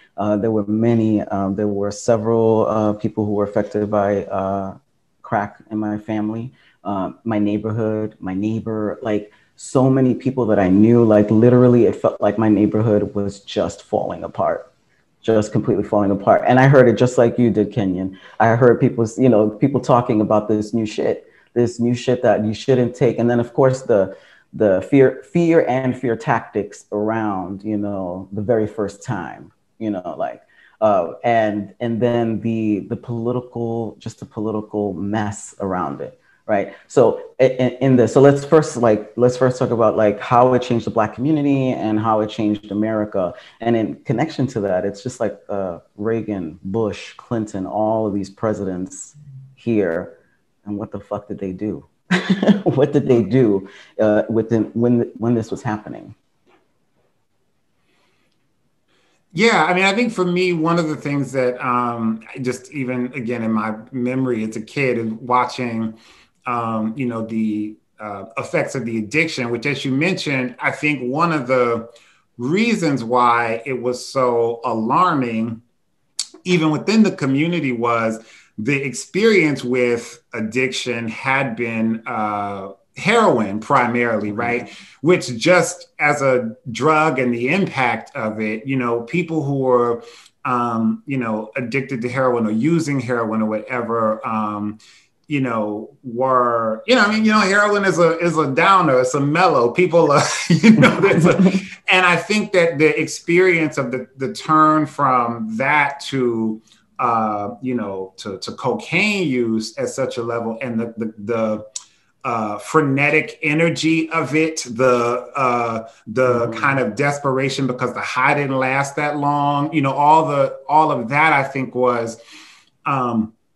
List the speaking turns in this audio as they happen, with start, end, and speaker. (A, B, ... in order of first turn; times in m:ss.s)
0:00.2-0:14.7 A
0:15.2-0:56.1 A
0:59.3-1:15.6 B
1:16.4-1:51.6 B
1:41.2-1:41.6 A
1:52.2-2:02.2 B
1:56.3-1:56.8 A
2:02.8-2:03.3 B